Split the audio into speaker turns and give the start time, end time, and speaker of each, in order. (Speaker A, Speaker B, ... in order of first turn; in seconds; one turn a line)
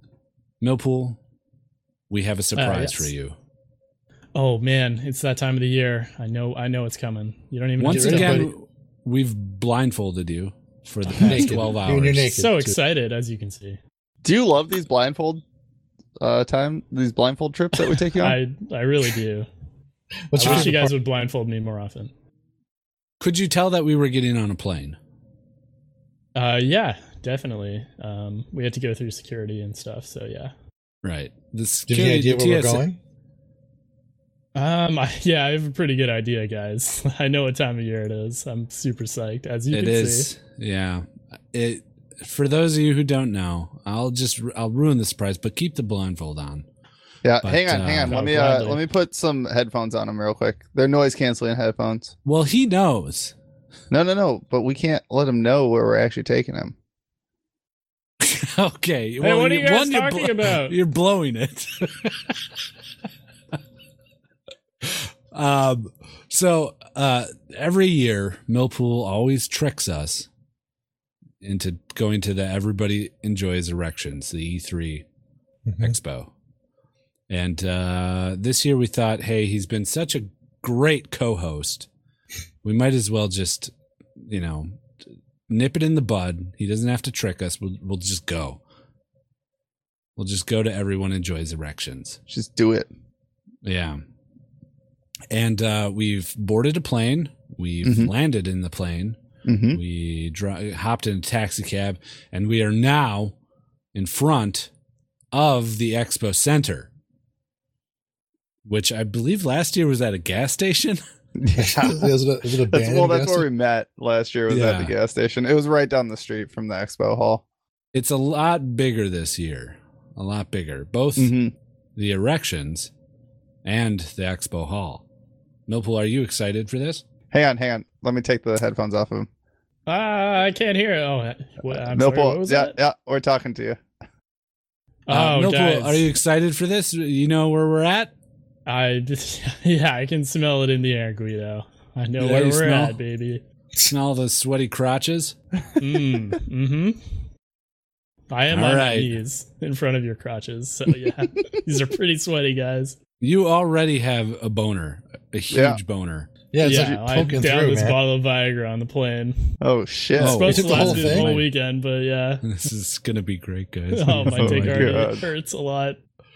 Speaker A: 0.6-1.2
Speaker A: 2.1-3.4
Speaker B: 2.5-3.1
Speaker B: 4.3-8.4
Speaker A: 7.8-12.4
Speaker C: 7.9-8.5
Speaker C: 11.2-12.8
Speaker B: 12.3-13.8
Speaker D: 14.2-15.4
Speaker D: 16.2-18.4
Speaker B: 18.1-19.5
Speaker C: 20.3-20.9
Speaker B: 20.4-22.1
Speaker A: 20.4-20.7
Speaker A: 23.2-25.0
Speaker B: 26.4-30.5
Speaker A: 31.0-32.9
Speaker C: 31.9-33.0
Speaker B: 34.5-40.3
Speaker A: 39.7-46.7
Speaker D: 47.2-52.1
Speaker A: 47.4-48.3
Speaker B: 48.0-48.8
Speaker A: 52.2-53.3
Speaker D: 53.9-56.8
Speaker A: 58.2-62.4
Speaker B: 59.2-60.8
Speaker A: 64.8-70.3
Speaker A: 71.4-75.1
Speaker C: 75.7-76.0
Speaker A: 75.8-76.3
Speaker A: 77.3-81.9
Speaker A: 82.6-84.8
Speaker A: 85.5-88.6
Speaker A: 90.2-92.2
Speaker D: 92.3-92.9
Speaker A: 93.6-94.0
Speaker A: 95.3-99.2
Speaker D: 97.8-98.1
Speaker D: 99.5-99.8
Speaker A: 99.7-103.3
Speaker A: 103.9-104.7
Speaker A: 105.3-106.9
Speaker A: 108.7-111.0
Speaker D: 111.4-112.1
Speaker C: 111.5-113.5
Speaker D: 112.7-117.4
Speaker A: 114.5-115.0
Speaker A: 117.9-121.3
Speaker D: 121.2-121.5
Speaker A: 122.0-122.9
Speaker A: 123.6-125.0
Speaker A: 125.7-127.0
Speaker D: 127.3-129.3
Speaker B: 129.9-132.7
Speaker D: 131.9-133.8
Speaker B: 135.1-136.1
Speaker A: 135.1-138.1
Speaker B: 138.7-143.4
Speaker A: 142.2-143.0
Speaker A: 143.8-145.3
Speaker B: 145.8-147.0
Speaker B: 148.3-153.0
Speaker A: 148.5-149.1
Speaker A: 153.2-156.3
Speaker D: 155.5-155.8
Speaker C: 156.5-158.0
Speaker B: 156.6-159.4
Speaker D: 159.6-160.5
Speaker A: 160.2-161.5
Speaker B: 160.2-162.4
Speaker C: 160.5-161.4
Speaker A: 162.4-165.1
Speaker B: 163.9-166.0
Speaker D: 164.4-165.2